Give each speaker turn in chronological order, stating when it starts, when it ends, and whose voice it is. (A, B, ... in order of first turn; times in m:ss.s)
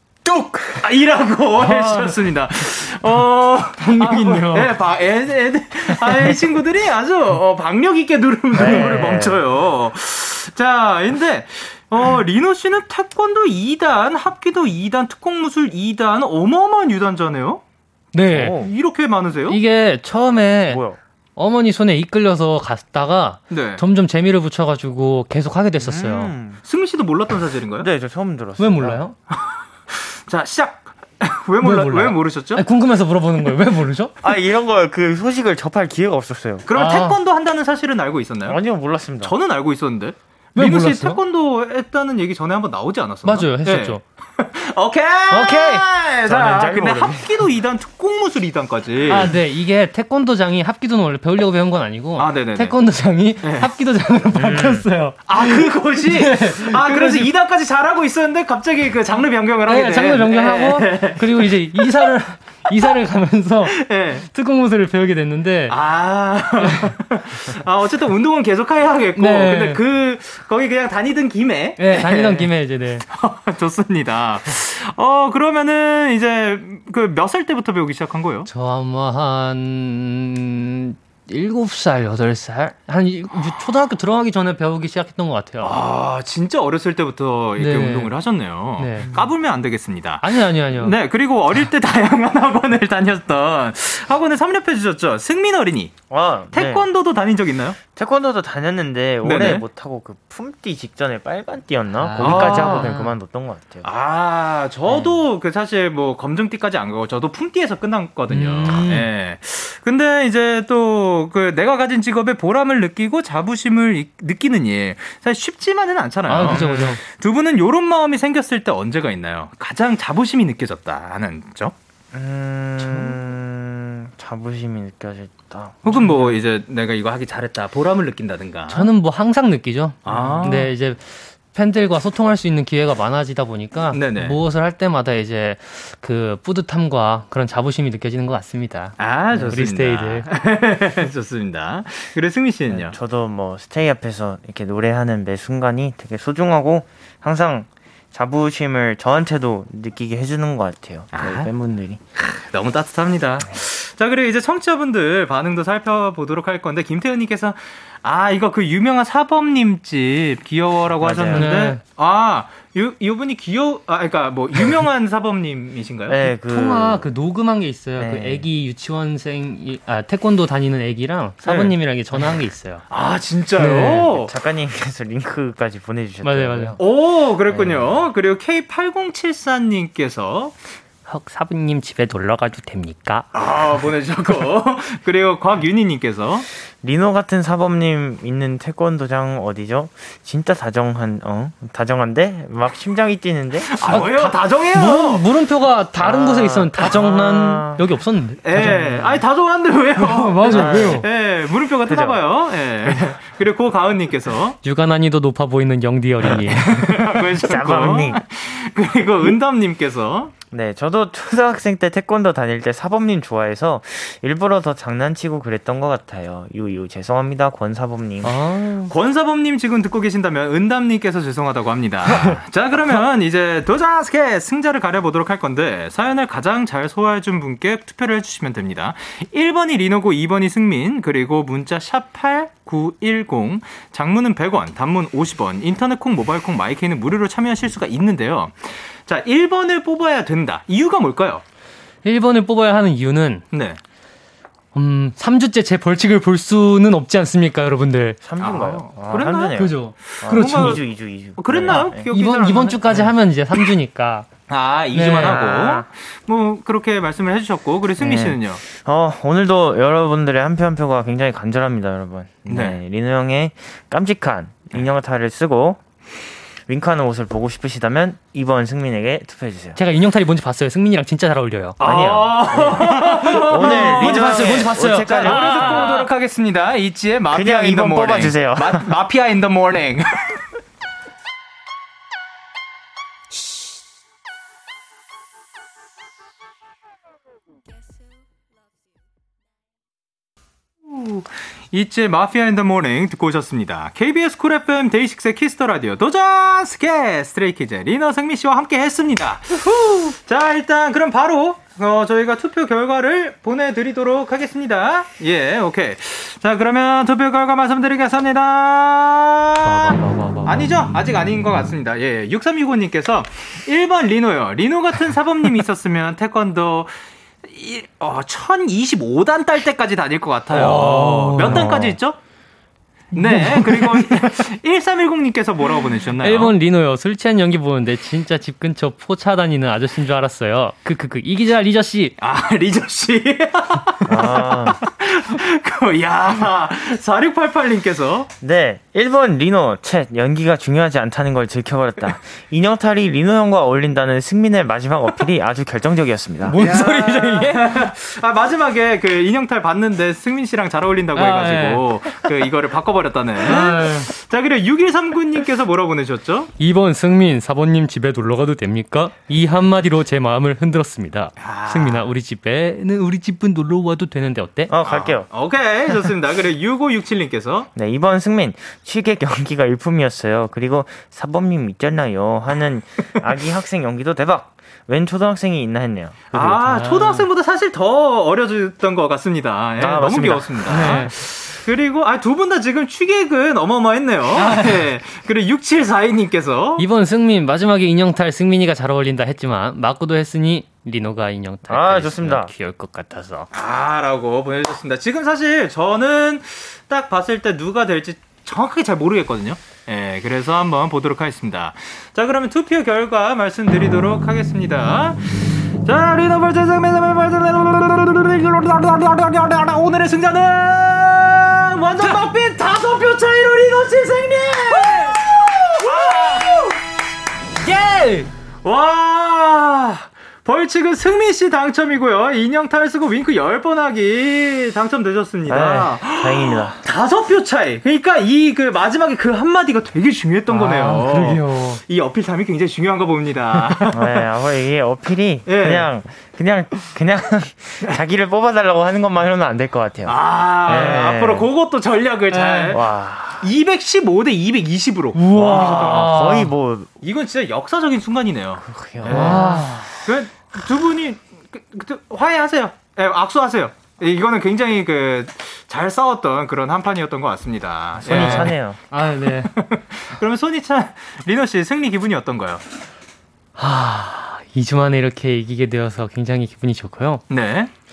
0:00.3-0:00.6 A
0:00.8-0:17.6 B
0:01.6-0:02.2 C
0:03.8-0:04.7 C
0:08.5-0:09.4 A
0:18.1-0:18.6 C
0:18.3-0:18.7 A
0:18.5-0:19.6 B
0:19.5-0:20.8 C
0:20.7-0:21.0 A
0:21.4-0:26.3 C
0:23.5-0:23.8 B
0:25.8-0:26.6 A
0:26.7-0:27.9 B
0:27.8-0:29.0 A
0:28.6-0:29.2 C
0:29.3-0:32.6 B
0:31.6-0:34.1 C
0:34.2-0:36.7 A
0:36.7-0:38.6 B
0:36.8-0:37.2 C
0:38.5-0:39.3 A
0:39.2-0:49.4 B
0:40.6-0:41.2 C
0:43.2-0:44.0 C
0:45.3-0:45.8 C
0:46.2-0:47.3 A
0:49.1-0:57.3 C
0:52.2-0:52.8 B
0:53.4-0:53.7 B
0:54.4-0:54.8 A
0:55.3-1:02.1 B
0:59.7-1:03.8 C
1:03.7-1:04.3 B
1:04.3-1:05.8 C
1:05.7-1:12.5 B
1:06.6-1:06.9 C
1:09.2-1:09.8 C
1:11.8-1:13.1 C
1:13.1-1:18.5 B
1:18.5-1:25.8 C
1:25.6-1:35.9 B
1:27.6-1:28.1 C
1:28.8-1:29.1 C
1:30.2-1:31.0 C
1:36.1-1:36.9 A
1:36.5-1:37.8 B
1:38.0-1:43.9 A
1:39.2-1:39.6 B
1:42.0-1:43.1 C
1:42.2-1:42.9 B
1:43.8-2:01.8 B
1:44.9-1:45.2 A
1:48.3-1:49.1 C
1:56.3-1:57.0 C
2:02.1-2:06.3 A
2:02.8-2:03.1 C
2:05.8-2:08.9 B
2:08.7-2:20.3 C
2:10.0-2:10.7 B
2:10.1-2:10.4 A
2:13.9-2:14.4 B
2:19.0-2:23.0 B
2:22.7-2:32.0 A
2:31.1-2:31.5 B
2:32.2-2:46.2 B
2:41.0-2:41.5 A
2:41.3-2:41.8 C
2:46.1-2:47.0 A
2:46.4-2:52.8 C
2:48.0-2:48.5 A
2:51.4-2:51.7 B
2:52.9-2:54.3 B
2:53.6-2:54.1 C
2:54.0-2:56.8 A
2:56.2-2:56.8 C
2:56.8-3:00.6 B
2:57.5-2:58.0 A
3:01.1-3:03.3 C
3:03.3-3:06.5 B
3:06.8-3:14.0 A
3:13.7-3:15.2 B
3:13.8-3:19.1 C
3:16.0-3:17.8 A
3:18.4-3:24.6 B
3:20.0-3:21.1 C
3:20.5-3:21.1 A
3:21.9-3:22.2 A
3:24.6-3:26.9 C
3:26.3-3:30.3 B
3:27.4-3:28.2 A
3:30.5-3:38.4 A
3:38.2-3:38.9 C
3:38.9-4:01.4 B
4:02.0-4:03.5 C
4:03.5-4:03.8 B
4:04.7-4:08.2 C
4:08.2-4:12.1 A
4:08.4-4:10.8 B
4:09.6-4:10.8 C
4:11.4-4:13.1 B
4:11.7-4:14.3 C
4:14.5-4:18.6 B
4:14.9-4:15.5 C
4:15.2-4:15.9 A
4:18.0-4:29.8 A
4:22.5-4:22.8 B
4:29.8-4:32.2 C
4:31.8-4:40.4 B
4:31.8-4:35.9 A
4:33.3-4:36.1 C
4:37.3-4:38.9 A
4:50.8-5:22.2 B
5:09.6-5:10.8 C
5:20.5-5:21.8 C
5:21.4-5:22.0 A
5:23.1-5:26.6 B
5:23.2-5:24.1 C
5:26.2-5:32.1 C
5:32.2-5:38.3 B
5:34.1-5:34.8 A
5:38.4-5:46.6 A
5:46.5-5:47.6 C
5:46.5-5:56.5 B
5:51.2-5:51.9 C
5:53.4-5:54.1 C
5:56.6-6:04.7 C
6:01.4-6:02.1 B
6:04.7-6:05.3 A
6:04.8-6:07.7 B
6:07.8-6:16.5 A
6:16.3-6:26.8 B
6:16.4-6:17.3 C
6:19.8-6:21.0 A
6:20.7-6:21.1 C
6:24.4-6:24.8 C
6:26.8-6:33.5 C
6:31.7-6:32.5 A
6:33.5-6:56.7 B
6:54.7-6:56.7 C
6:57.6-6:58.3 C
6:58.6-7:14.2 B
7:05.5-7:06.8 A
7:10.5-7:11.8 C
7:13.9-7:21.5 A
7:15.5-7:15.9 B
7:20.0-7:22.8 B
7:20.7-7:21.0 C
7:22.3-7:22.8 C
7:22.7-7:23.5 A
7:23.4-7:26.2 B
7:25.1-7:26.5 C
7:25.3-7:26.9 A
7:27.0-7:38.6 B
7:28.6-7:29.8 A
7:29.1-7:29.9 C
7:38.0-7:38.8 A
7:38.0-7:39.5 C
7:39.3-7:42.6 B
7:43.6-7:47.2 C
7:47.3-7:47.7 B